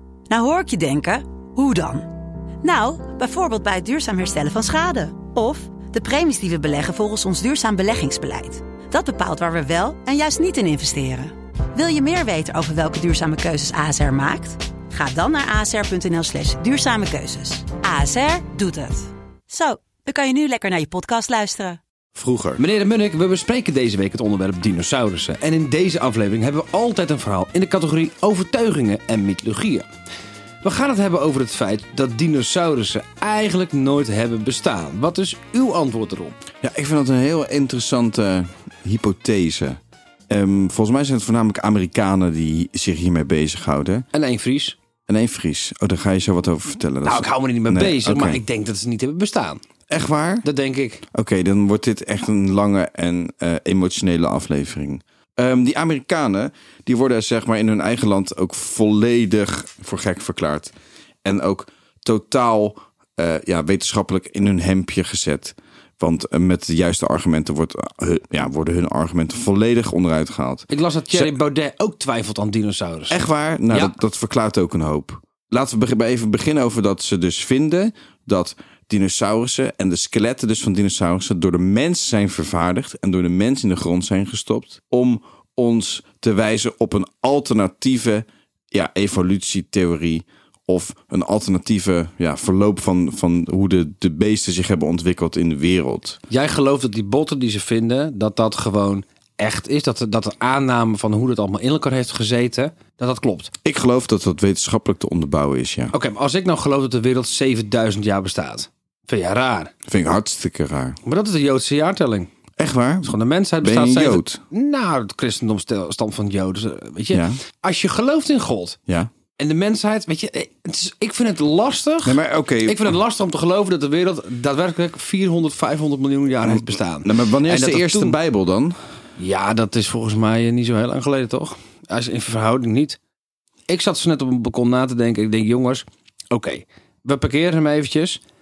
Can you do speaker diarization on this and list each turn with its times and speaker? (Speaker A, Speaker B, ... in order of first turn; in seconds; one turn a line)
Speaker A: 0.3-2.1
Speaker A: 2.6-21.8
Speaker B: 22.1-22.6
Speaker C: 22.6-29.9
Speaker C: 30.6-36.4
Speaker B: 36.6-39.8
Speaker B: 40.3-44.1
Speaker C: 44.1-44.8
Speaker B: 45.1-48.4
Speaker C: 47.0-49.6
Speaker B: 49.9-50.5
Speaker C: 50.4-51.0
Speaker B: 51.1-60.7
Speaker B: 61.2-71.3
Speaker C: 70.7-74.0
Speaker B: 73.1-96.2
Speaker C: 96.3-103.5
Speaker B: 103.6-106.0
Speaker C: 105.9-109.7
Speaker B: 109.9-111.0
Speaker C: 111.0-112.3
Speaker B: 112.6-114.4
Speaker C: 113.0-118.8
Speaker B: 117.1-117.4
Speaker C: 119.4-128.2
Speaker B: 122.0-123.0
Speaker B: 126.4-128.8
Speaker C: 129.2-133.0
Speaker C: 133.7-138.2